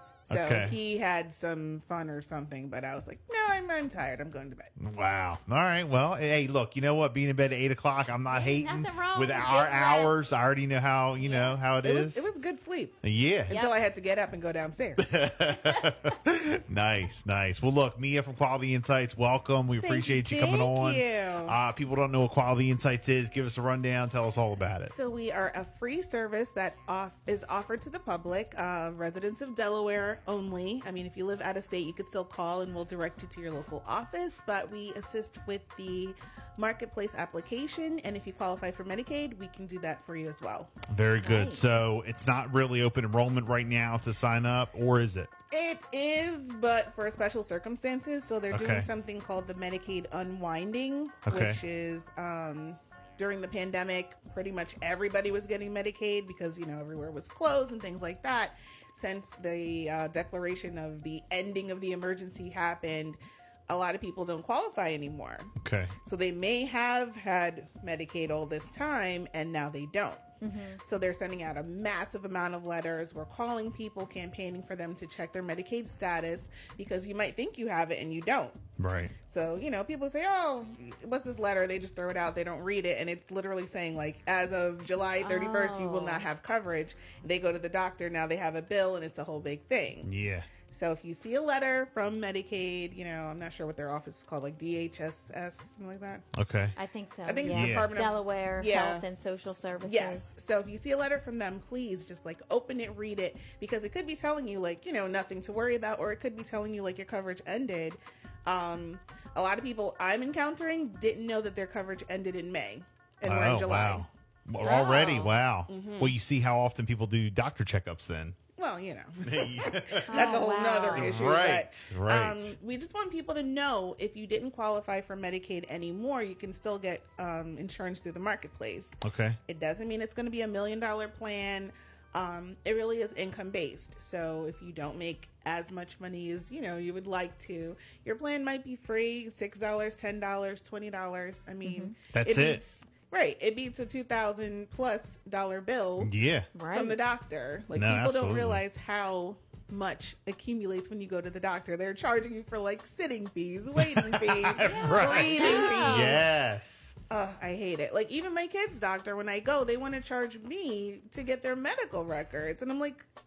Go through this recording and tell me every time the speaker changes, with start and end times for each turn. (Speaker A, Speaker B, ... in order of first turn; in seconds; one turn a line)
Speaker A: 0.2-4.7
Speaker B: 0.3-0.8
Speaker B: 4.8-12.3
Speaker C: 8.3-10.2
Speaker C: 11.2-11.6
Speaker A: 11.8-15.2
Speaker B: 13.0-13.5
Speaker C: 13.5-13.8
Speaker B: 15.0-24.9
Speaker A: 19.8-21.6
Speaker A: 24.9-40.7
Speaker B: 40.9-45.3
Speaker C: 41.2-41.8
Speaker A: 45.5-65.5
Speaker B: 48.5-48.9
Speaker B: 51.2-51.6
Speaker B: 65.6-65.9
Speaker A: 66.0-78.6
Speaker C: 70.4-70.8
Speaker B: 78.8-79.1
Speaker A: 79.3-90.1
Speaker C: 85.2-86.3
Speaker B: 90.0-90.5
Speaker A: 90.7-96.2
Speaker B: 96.3-96.8
Speaker C: 96.8-100.2
Speaker A: 97.2-99.0
Speaker B: 97.5-97.9
Speaker A: 99.8-114.1
Speaker B: 113.2-118.4
Speaker C: 114.6-115.3
Speaker A: 115.7-116.2
Speaker A: 118.5-146.1
Speaker B: 119.2-122.5
Speaker C: 120.1-121.2
Speaker B: 129.0-129.4
Speaker C: 141.6-141.9
Speaker B: 142.1-142.6
Speaker B: 146.0-146.5
Speaker C: 146.5-147.0
Speaker A: 146.7-156.3
Speaker B: 147.8-148.6
Speaker B: 153.8-156.9
Speaker C: 154.6-156.2
Speaker A: 157.1-163.1